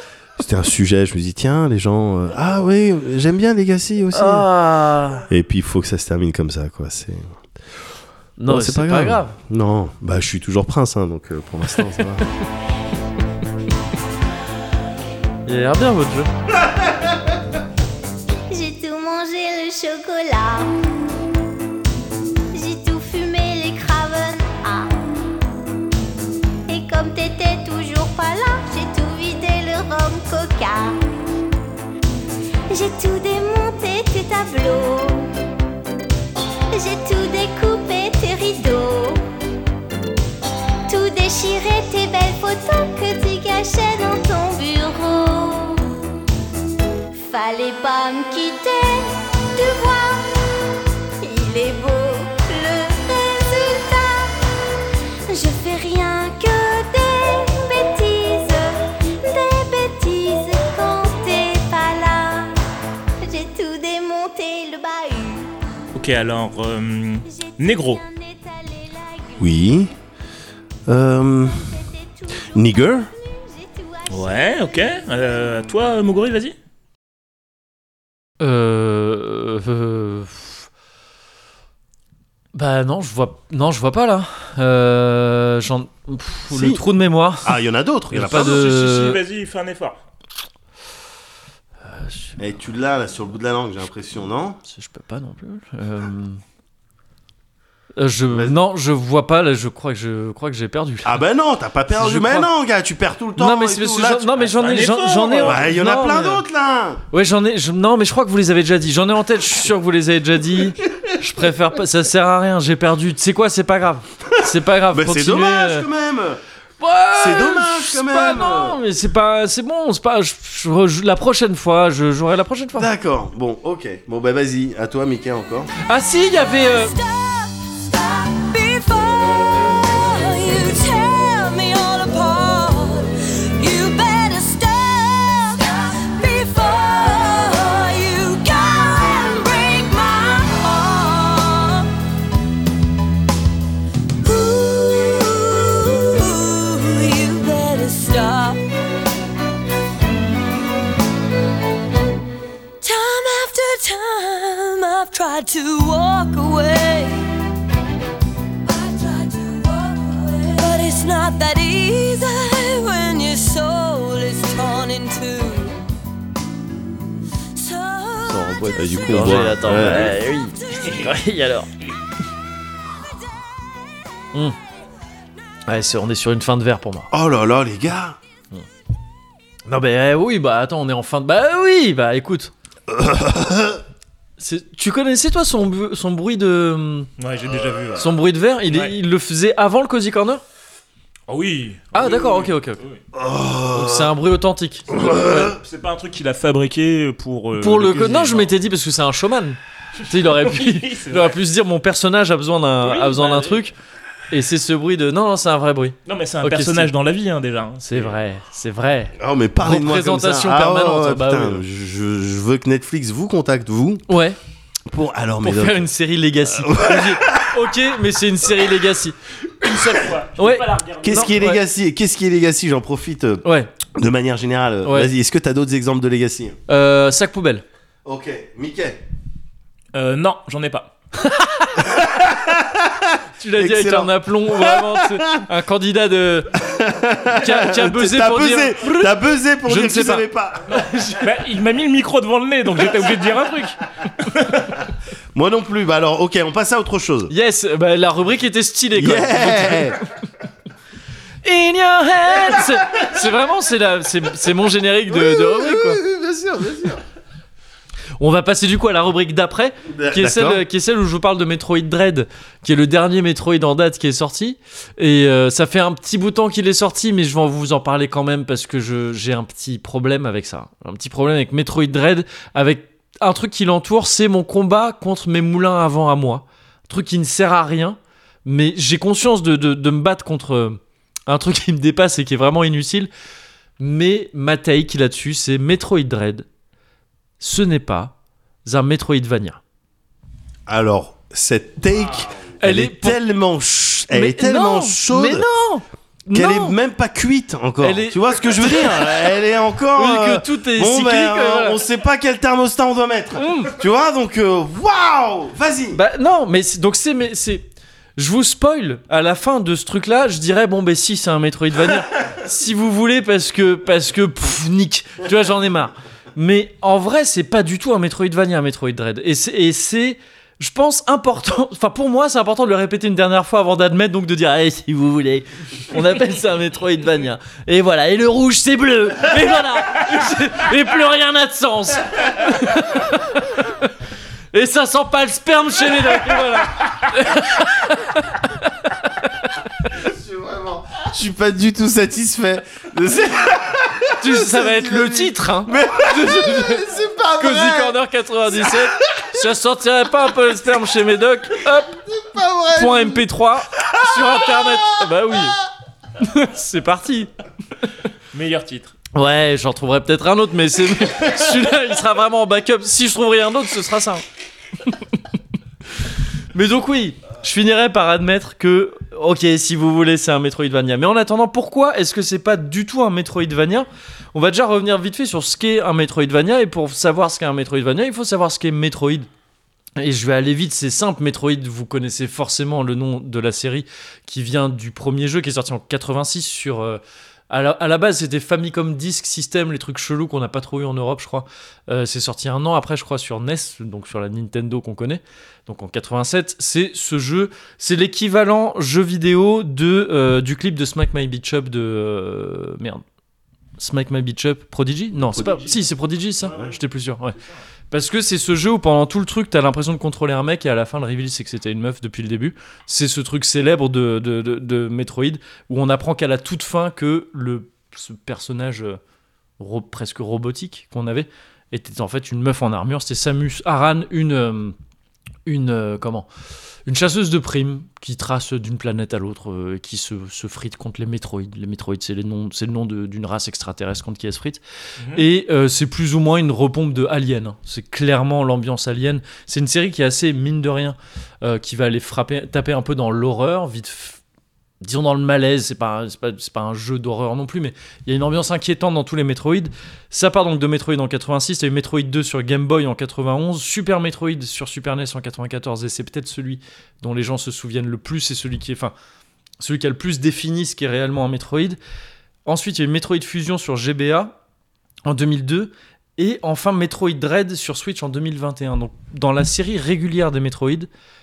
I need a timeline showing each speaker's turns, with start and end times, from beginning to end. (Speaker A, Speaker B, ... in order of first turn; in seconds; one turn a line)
Speaker A: 0.4-4.5
Speaker B: 4.1-5.3
Speaker A: 5.3-7.3
Speaker B: 8.4-9.4
Speaker A: 8.5-12.3
Speaker B: 15.5-16.3
Speaker C: 18.5-20.7
Speaker C: 22.5-25.0
Speaker C: 26.7-31.0
Speaker C: 32.7-35.3
Speaker C: 36.7-39.3
Speaker C: 40.9-46.0
Speaker C: 47.2-50.3
Speaker C: 51.2-54.4
Speaker C: 55.3-62.5
Speaker C: 63.2-65.5
Speaker D: 65.9-68.0
Speaker C: 67.2-69.9
Speaker A: 69.4-69.9
Speaker A: 70.9-71.6
Speaker C: 71.5-75.4
Speaker A: 72.5-73.1
Speaker D: 74.1-76.5
Speaker B: 78.4-80.6
Speaker B: 82.5-87.5
Speaker A: 86.5-86.8
Speaker A: 87.4-88.5
Speaker B: 88.1-89.2
Speaker D: 88.2-90.0
Speaker B: 91.8-92.4
Speaker A: 92.4-94.6
Speaker B: 94.7-96.4
Speaker B: 98.0-101.2
Speaker A: 101.0-104.5
Speaker B: 101.9-102.5
Speaker B: 103.4-106.4
Speaker D: 104.5-105.7
Speaker A: 105.4-107.0
Speaker B: 107.1-115.9
Speaker A: 114.9-116.4
Speaker B: 116.8-122.9
Speaker A: 117.2-118.8
Speaker A: 122.8-125.7
Speaker B: 125.9-127.0
Speaker E: 127.3-133.1
Speaker E: 133.6-135.6
Speaker E: 136.2-141.8
Speaker E: 144.3-148.6
Speaker E: 152.8-157.2
Speaker E: 160.6-165.7
Speaker E: 167.6-168.2
Speaker B: 168.3-171.7
Speaker A: 168.4-170.2
Speaker D: 170.8-171.2
Speaker B: 175.7-177.1
Speaker A: 177.1-178.2
Speaker B: 179.7-182.5
Speaker A: 182.9-183.8
Speaker B: 184.4-187.1
Speaker D: 187.2-188.2
Speaker B: 188.0-190.4
Speaker D: 188.7-188.9
Speaker D: 191.3-193.0
Speaker B: 191.9-192.8
Speaker A: 193.1-194.1
Speaker B: 193.7-195.5
Speaker A: 194.9-195.6
Speaker D: 195.2-198.5
Speaker B: 197.6-199.6
Speaker B: 200.1-203.7
Speaker D: 200.2-201.4
Speaker D: 202.8-203.6
Speaker B: 204.3-206.9
Speaker D: 206.1-208.1
Speaker B: 207.8-211.6
Speaker A: 209.2-214.1
Speaker B: 214.1-214.4
Speaker A: 214.9-215.9
Speaker B: 215.4-219.2
Speaker A: 216.5-217.5
Speaker D: 219.6-221.5
Speaker B: 220.4-221.6
Speaker A: 221.0-226.6
Speaker B: 223.4-223.7
Speaker B: 226.7-227.7
Speaker A: 228.1-229.0
Speaker D: 229.9-230.9
Speaker B: 231.2-231.8
Speaker A: 231.8-235.4
Speaker B: 233.4-236.6
Speaker A: 236.6-240.7
Speaker B: 237.3-241.2
Speaker D: 241.0-244.8
Speaker A: 245.3-247.3
Speaker B: 247.3-250.0
Speaker A: 248.9-250.0
Speaker B: 251.4-256.0
Speaker A: 255.1-257.0
Speaker B: 258.2-283.1
Speaker A: 259.9-260.6
Speaker B: 283.8-286.5
Speaker B: 287.4-288.1
Speaker B: 288.7-289.6
Speaker A: 290.7-295.5
Speaker B: 292.6-293.2
Speaker B: 294.1-296.8
Speaker A: 296.3-306.0
Speaker B: 297.8-299.3
Speaker B: 299.9-301.8
Speaker B: 303.4-303.7
Speaker B: 305.9-333.9
Speaker B: 334.5-339.5
Speaker A: 340.3-347.9
Speaker B: 344.2-346.9
Speaker B: 347.4-352.0
Speaker A: 352.3-352.9
Speaker B: 352.7-355.6
Speaker B: 356.2-357.3
Speaker D: 358.3-358.9
Speaker B: 359.1-364.2
Speaker B: 366.5-379.3
Speaker B: 380.0-403.0
Speaker B: 403.8-407.4
Speaker D: 405.3-406.8
Speaker A: 406.4-406.7
Speaker B: 407.9-419.0
Speaker B: 419.6-424.8
Speaker B: 425.5-426.3
Speaker B: 426.9-434.6
Speaker B: 435.1-444.2
Speaker B: 444.8-458.9
Speaker B: 459.6-461.8
Speaker B: 462.5-464.3
Speaker B: 465.1-470.9